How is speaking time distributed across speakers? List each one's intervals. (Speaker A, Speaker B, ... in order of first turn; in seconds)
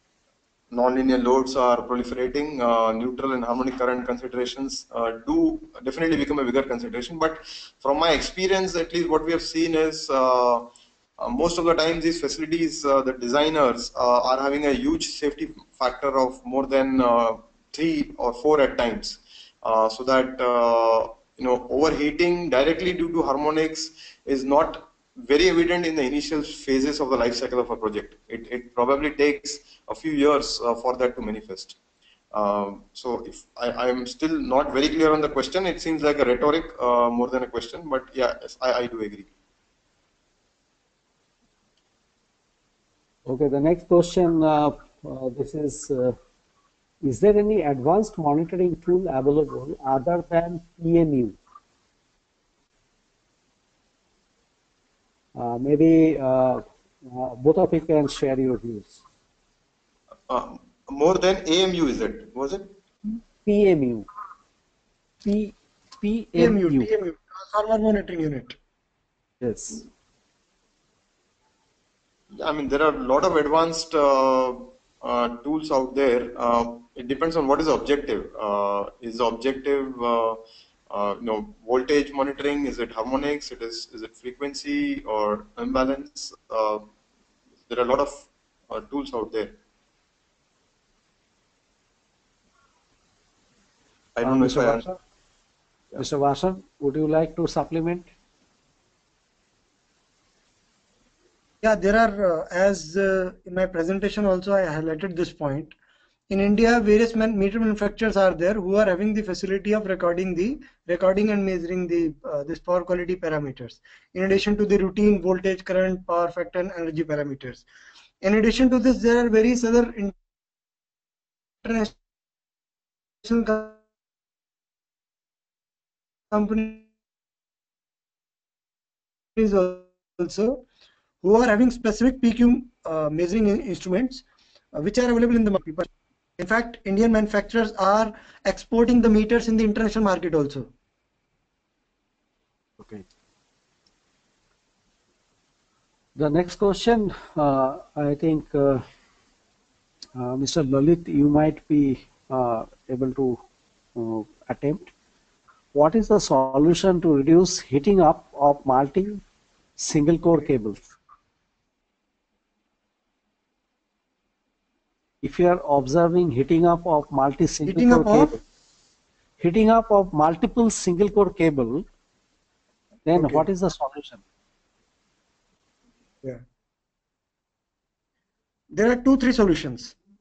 Speaker A: 0.7-31.8, 32.3-39.3, 60.3-62.7, 72.3-86.9, 87.7-89.6, 94.2-94.9
Speaker B: 43.3-46.2, 47.0-51.4, 55.4-59.0, 63.4-64.1, 65.2-66.9, 69.4-69.8, 94.2-95.0, 95.9-98.1, 142.8-143.1, 146.2-148.8, 150.2-153.4, 153.9-154.9, 155.7-159.2, 159.8-160.9, 165.2-168.4, 169.4-171.9, 173.1-174.2
Speaker C: 66.4-68.6, 101.6-105.7, 106.3-117.7, 118.2-120.2, 121.6-122.0, 123.2-123.8, 126.3-126.9, 129.4-130.6, 131.2-140.7, 167.7-168.4, 173.2-173.5, 178.7-179.9